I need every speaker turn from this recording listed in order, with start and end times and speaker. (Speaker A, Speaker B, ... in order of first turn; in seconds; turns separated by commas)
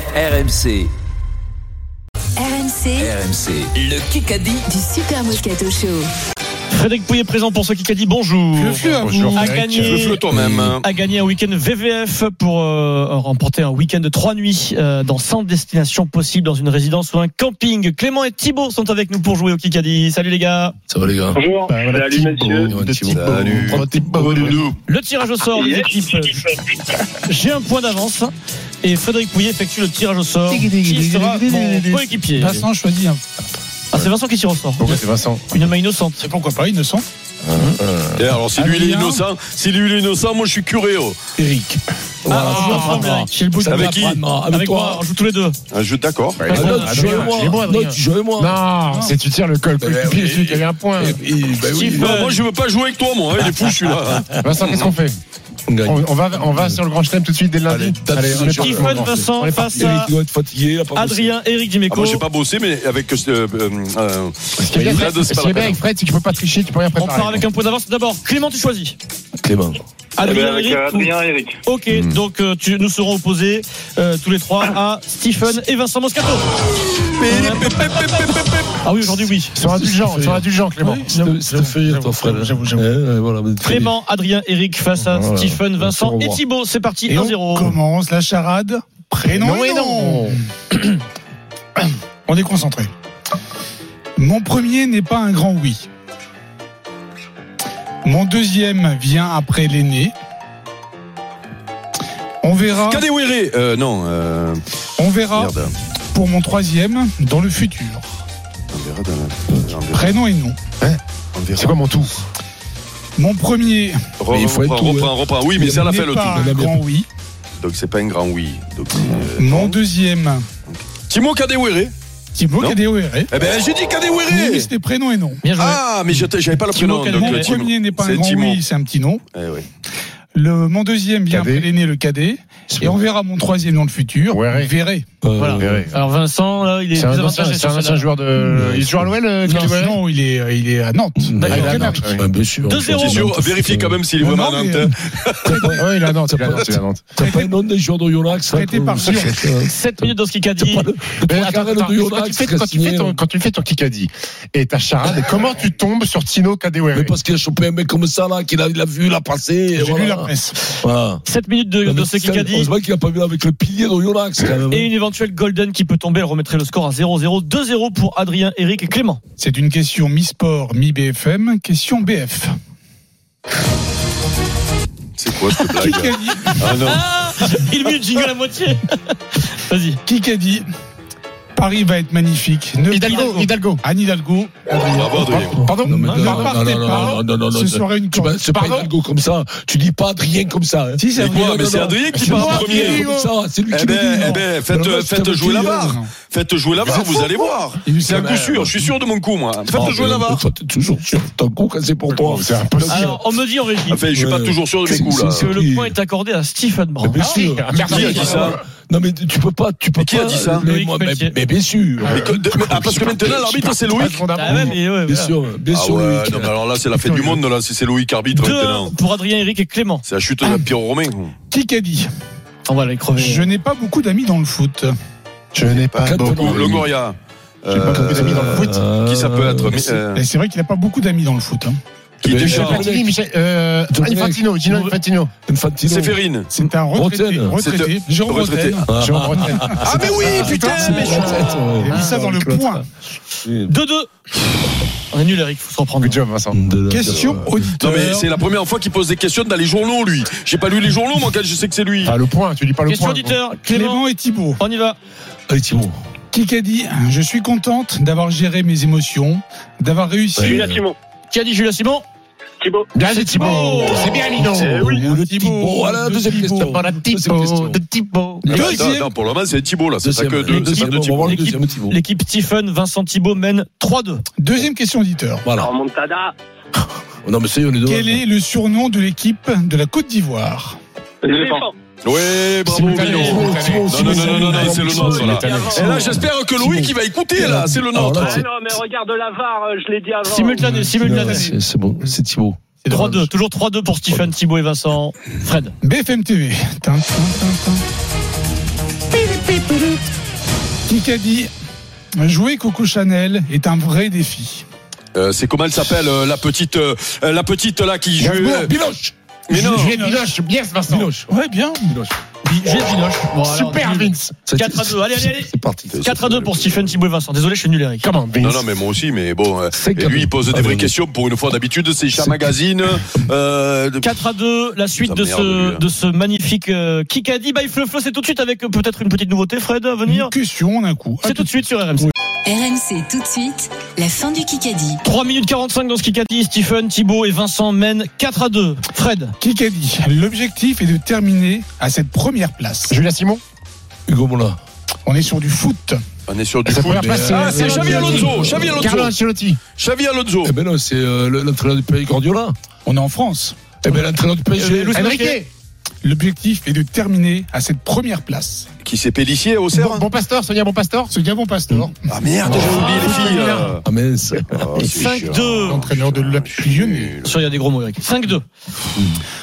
Speaker A: 0.1-0.9, Speaker B: 2.4-3.1, Speaker A: 3.0-4.7, Speaker B: 4.6-6.1, Speaker C: 6.7-20.7, Speaker D: 8.5-9.6, Speaker E: 9.0-10.0, Speaker F: 9.8-10.8, Speaker G: 20.9-21.4, Speaker H: 21.3-22.7, Speaker E: 21.7-24.7, Speaker G: 22.7-23.9, Speaker F: 23.1-24.8, Speaker C: 24.8-26.5, Speaker H: 25.5-26.1, Speaker C: 27.2-32.7, Speaker E: 30.5-32.1, Speaker D: 32.3-33.2, Speaker C: 33.9-36.3, Speaker E: 34.8-35.6, Speaker D: 36.2-37.0, Speaker C: 37.5-37.8, Speaker G: 37.5-38.3, Speaker F: 38.2-41.2, Speaker D: 38.5-39.2, Speaker D: 41.4-41.8, Speaker G: 42.2-45.0, Speaker C: 42.3-43.6, Speaker E: 42.4-43.1, Speaker D: 42.7-44.0, Speaker F: 43.6-44.2, Speaker C: 44.5-45.5, Speaker F: 45.7-46.8, Speaker E: 46.4-51.2, Speaker G: 46.5-48.6, Speaker C: 46.5-47.2, Speaker D: 48.9-49.2, Speaker G: 49.8-52.2, Speaker C: 51.7-52.4, Speaker F: 52.0-54.9, Speaker E: 54.4-55.2, Speaker G: 55.7-56.8, Speaker E: 55.8-59.9, Speaker G: 57.7-59.2, Speaker C: 58.4-60.1, Speaker G: 59.7-61.3, Speaker C: 61.0-62.2, Speaker F: 61.9-65.8, Speaker E: 64.6-67.5, Speaker C: 67.0-69.0, Speaker G: 69.4-69.8, Speaker C: 70.2-76.6, Speaker H: 70.2-71.6, Speaker F: 77.0-78.8, Speaker C: 77.2-79.5, Speaker E: 79.5-81.2, Speaker G: 79.6-83.9, Speaker D: 80.9-82.8, Speaker C: 83.6-87.8, Speaker G: 85.0-86.4, Speaker D: 87.1-90.4, Speaker E: 89.3-90.4, Speaker D: 92.3-92.9, Speaker D: 94.2-95.9, Speaker D: 98.0-100.1, Speaker D: 102.4-103.1, Speaker F: 102.8-104.6, Speaker D: 105.0-108.2, Speaker F: 105.3-105.7, Speaker F: 108.7-110.2, Speaker D: 109.9-110.6, Speaker F: 111.3-111.8, Speaker E: 111.6-112.1, Speaker D: 113.2-114.0, Speaker F: 114.2-116.5, Speaker G: 114.3-116.8, Speaker D: 115.8-117.1, Speaker F: 117.6-119.8, Speaker D: 119.4-120.5, Speaker F: 120.7-121.9, Speaker D: 122.3-123.3, Speaker F: 123.3-124.7, Speaker D: 124.3-125.4, Speaker C: 125.4-125.8, Speaker F: 125.6-128.6, Speaker C: 126.7-127.5, Speaker D: 127.1-129.2, Speaker F: 129.3-129.7, Speaker D: 130.3-135.1, Speaker E: 131.3-131.7, Speaker E: 134.3-134.7, Speaker G: 135.2-135.8, Speaker C: 135.3-138.0, Speaker E: 135.6-136.0, Speaker E: 136.9-140.0, Speaker G: 138.4-139.1, Speaker C: 139.4-139.8, Speaker D: 139.6-142.1, Speaker G: 141.2-144.1, Speaker E: 141.4-142.3, Speaker C: 141.5-141.8, Speaker C: 142.7-143.2, Speaker F: 143.0-145.8, Speaker D: 144.1-144.9, Speaker G: 145.4-153.2, Speaker E: 145.5-147.1, Speaker D: 147.2-147.5, Speaker D: 148.5-149.5, Speaker C: 149.6-150.9, Speaker E: 151.2-157.2, Speaker G: 156.9-161.2, Speaker D: 159.7-160.6, Speaker C: 161.2-162.7, Speaker G: 161.8-164.9, Speaker C: 164.7-169.2, Speaker D: 169.4-172.5, Speaker F: 175.2-177.0, Speaker D: 175.8-176.6, Speaker C: 176.4-180.0, Speaker D: 180.1-180.7, Speaker D: 181.6-188.4, Speaker E: 182.9-183.8, Speaker C: 182.9-183.5, Speaker F: 184.9-185.6, Speaker E: 185.2-187.2, Speaker G: 185.5-195.9, Speaker C: 186.1-186.3, Speaker E: 188.5-188.9, Speaker D: 191.0-192.9, Speaker F: 191.2-193.0, Speaker E: 192.3-193.3, Speaker F: 193.7-200.4, Speaker D: 194.0-194.4, Speaker D: 195.8-196.1, Speaker D: 197.8-198.7, Speaker G: 199.7-203.2, Speaker E: 202.1-203.2, Speaker C: 202.8-204.0, Speaker F: 203.9-205.5, Speaker G: 204.1-205.9, Speaker C: 205.2-207.2, Speaker G: 207.0-213.5, Speaker E: 207.2-208.6, Speaker F: 207.9-208.6, Speaker F: 210.0-210.7, Speaker C: 210.6-211.3, Speaker F: 212.0-214.2, Speaker E: 213.2-214.8, Speaker C: 214.3-215.3, Speaker G: 214.5-217.2, Speaker F: 215.7-218.9, Speaker C: 218.3-220.0, Speaker F: 220.0-221.3, Speaker D: 221.5-222.1, Speaker C: 222.7-223.5, Speaker D: 223.2-224.9, Speaker E: 225.5-226.7, Speaker F: 225.7-230.2, Speaker G: 226.0-226.9, Speaker E: 227.7-228.8, Speaker G: 227.9-230.0, Speaker D: 230.1-231.8, Speaker F: 232.2-232.8, Speaker G: 232.2-233.1, Speaker E: 232.4-235.3, Speaker G: 233.9-234.9, Speaker G: 235.4-236.2, Speaker F: 235.8-236.5, Speaker D: 236.5-238.9, Speaker G: 236.8-237.6, Speaker F: 237.5-238.8, Speaker G: 238.8-242.8, Speaker E: 238.9-240.5, Speaker D: 239.4-242.8, Speaker F: 239.8-241.4, Speaker C: 240.6-242.4, Speaker G: 243.4-243.7, Speaker C: 243.7-244.1, Speaker C: 245.1-246.2, Speaker E: 246.0-246.6, Speaker G: 246.5-247.7, Speaker D: 246.9-248.3, Speaker F: 247.0-252.2, Speaker E: 252.0-253.4, Speaker C: 252.8-254.0, Speaker D: 253.7-254.6, Speaker C: 254.6-255.0, Speaker G: 255.5-255.9, Speaker D: 256.3-260.6, Speaker G: 260.4-260.8, Speaker H: 260.4-260.9, Speaker C: 261.3-262.0, Speaker H: 262.6-262.9, Speaker E: 262.9-264.9, Speaker C: 263.1-264.2, Speaker G: 264.3-267.8, Speaker D: 264.8-266.8, Speaker E: 266.6-268.6, Speaker F: 268.4-271.4, Speaker D: 268.4-269.1, Speaker G: 270.0-272.0, Speaker C: 270.4-274.2, Speaker D: 274.4-275.4, Speaker G: 275.4-275.7, Speaker H: 275.6-276.3, Speaker G: 277.2-278.2, Speaker D: 277.8-280.8, Speaker H: 281.2-281.7, Speaker F: 282.0-288.3, Speaker E: 282.6-284.1, Speaker C: 283.0-283.4, Speaker G: 283.0-288.5, Speaker H: 284.8-285.9, Speaker E: 285.2-286.2, Speaker H: 288.1-290.6, Speaker C: 290.2-291.5, Speaker D: 290.6-291.4, Speaker G: 291.0-293.2, Speaker D: 292.8-293.3, Speaker C: 292.9-295.8, Speaker D: 295.8-297.8, Speaker D: 300.9-301.5, Speaker D: 302.2-304.6, Speaker F: 305.1-308.7, Speaker E: 308.2-308.7, Speaker G: 308.7-309.1, Speaker F: 309.5-309.9, Speaker E: 309.5-311.1, Speaker D: 309.6-310.3, Speaker G: 310.9-311.3, Speaker D: 311.3-311.9, Speaker G: 311.9-312.2, Speaker C: 312.4-318.1, Speaker E: 313.4-314.4, Speaker G: 314.5-316.0, Speaker F: 315.9-317.0, Speaker E: 318.0-318.6, Speaker F: 318.4-324.1, Speaker G: 319.7-320.9, Speaker G: 322.2-322.4, Speaker C: 324.0-330.3, Speaker F: 324.9-325.8, Speaker D: 330.1-331.5, Speaker C: 331.2-332.1, Speaker B: 332.4-335.0, Speaker C: 335.0-339.3, Speaker D: 339.4-342.9, Speaker E: 342.9-343.4, Speaker G: 344.1-344.6, Speaker D: 345.1-346.0, Speaker F: 346.3-349.1, Speaker E: 346.6-349.6, Speaker G: 346.9-348.9, Speaker F: 349.8-350.5, Speaker G: 350.4-352.5, Speaker D: 352.8-353.7, Speaker G: 353.8-355.0, Speaker C: 354.5-355.4, Speaker E: 354.9-355.5, Speaker D: 356.0-358.7, Speaker F: 358.8-360.0, Speaker E: 359.7-361.1, Speaker D: 361.1-363.2, Speaker F: 362.1-363.8, Speaker E: 362.4-363.8, Speaker C: 362.5-363.4, Speaker G: 363.8-365.0, Speaker F: 364.5-367.4, Speaker C: 364.8-365.9, Speaker D: 365.6-367.2, Speaker C: 367.2-368.4